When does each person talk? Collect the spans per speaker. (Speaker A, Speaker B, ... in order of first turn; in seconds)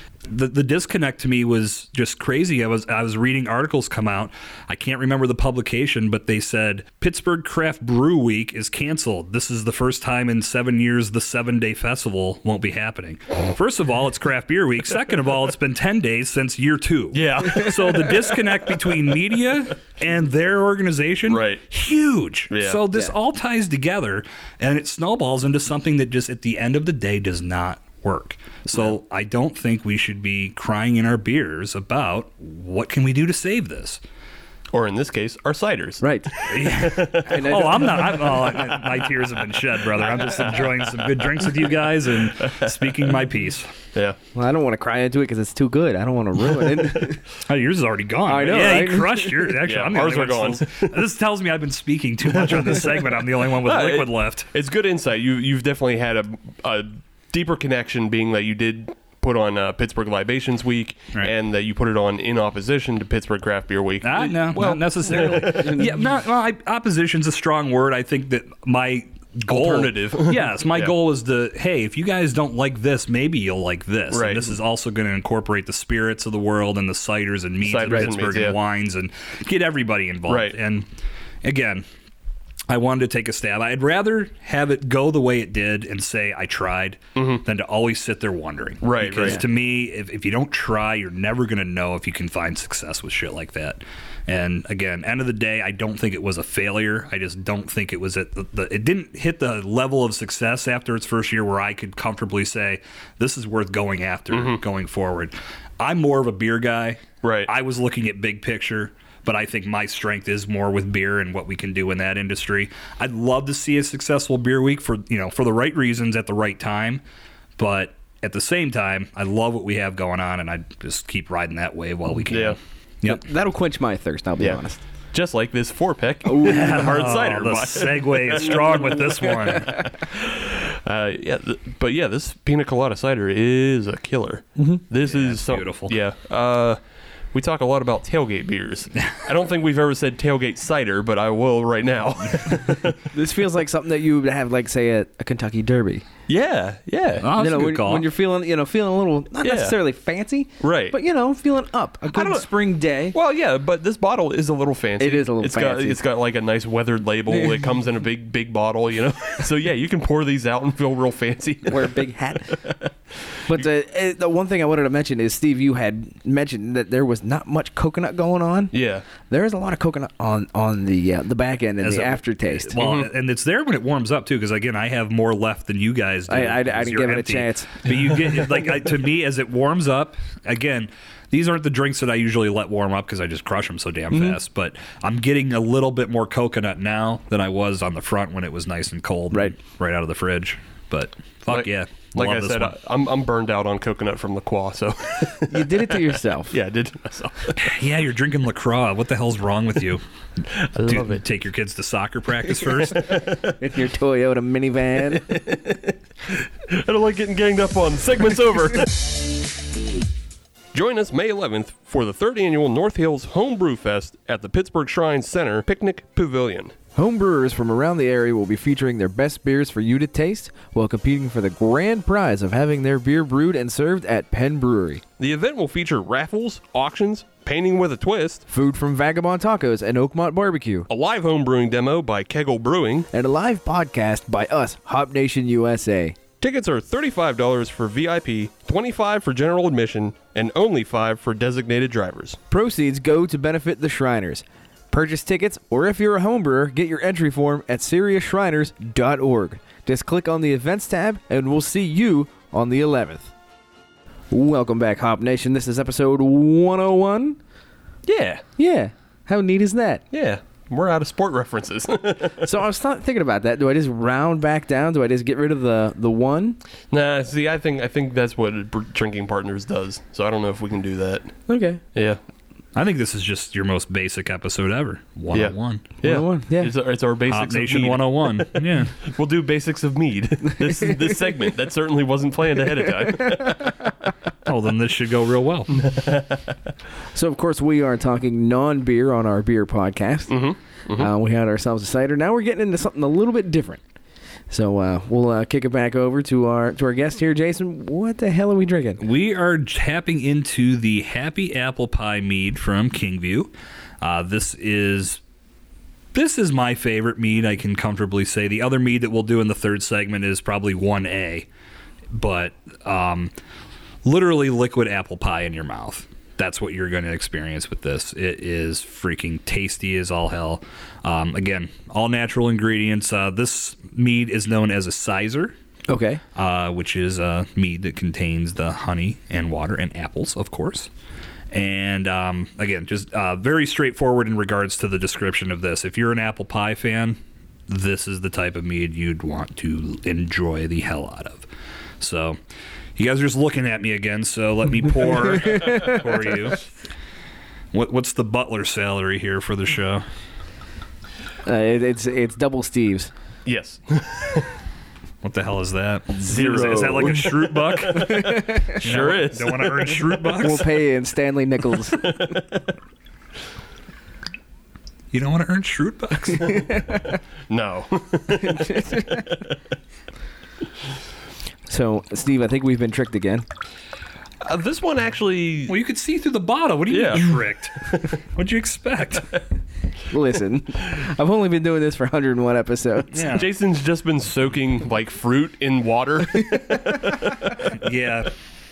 Speaker A: 0.3-34.0, 36.5-43.7, 47.4-54.5, 64.0-80.9, 81.4-81.8, 82.7-117.0, 117.6-123.2, 126.4-129.9, 135.1-135.9, 147.2-148.1, 171.8-192.8, 197.6-200.0, 200.9-203.1, 272.8-275.9, 277.3-279.0, 284.4-285.9, 299.0-305.2, 306.1-311.5, 312.1-313.3, 314.1-325.5, 326.4-330.9, 331.5-341.5, 342.0-342.4, 343.0-346.7, 347.7-350.0, 355.2-360.7, 365.1-366.7, 375.7-379.4, 383.1-383.5, 387.7-388.3
Speaker B: 17.1-18.9, 21.3-21.6, 22.5-22.8, 28.7-29.0, 34.7-39.3, 39.9-43.2, 48.5-48.9, 49.6-51.0, 52.3-65.9, 69.5-70.9, 74.1-74.6, 77.6-78.6, 80.3-80.6, 87.2-87.4, 88.8-89.4, 104.3-104.6, 107.2-107.5, 122.3-122.6, 125.1-136.8, 137.3-143.1, 146.3-147.3, 149.4-149.8, 150.6-151.0, 152.1-152.5, 153.1-162.9, 168.7-169.1, 172.8-173.1, 191.5-197.8, 200.5-201.2, 202.9-203.6, 205.3-209.5, 210.7-216.8, 225.2-228.4, 230.9-233.1, 236.4-242.4, 258.1-258.4, 260.1-262.5, 266.9-271.4, 271.9-272.2, 275.3-283.8, 285.8-286.4, 290.3-291.1, 353.5-354.5, 356.2-360.5, 362.0-362.6, 367.5-369.6, 374.4-375.8, 376.9-378.1, 383.2-387.6
Speaker C: 36.0-36.3, 37.3-37.8, 44.3-47.2, 48.3-49.5, 65.5-65.8, 123.0-124.8, 126.3-126.8, 143.1-146.0, 147.3-153.2, 155.0-156.0, 161.7-162.6, 163.5-168.7, 169.3-172.8, 176.3-177.7, 184.1-184.4, 195.5-196.6, 203.6-205.4, 216.9-225.0, 228.5-230.9, 233.1-236.2, 242.5-253.3, 254.3-257.4, 258.6-260.0, 262.4-266.6, 271.5-271.8, 276.0-276.7, 287.1-290.4, 290.9-293.8, 294.5-299.0, 325.9-326.2, 345.5-346.0, 351.4-353.1, 356.2-357.3, 357.9-358.8, 360.4-362.4, 368.5-369.2, 371.7-373.5, 380.1-383.2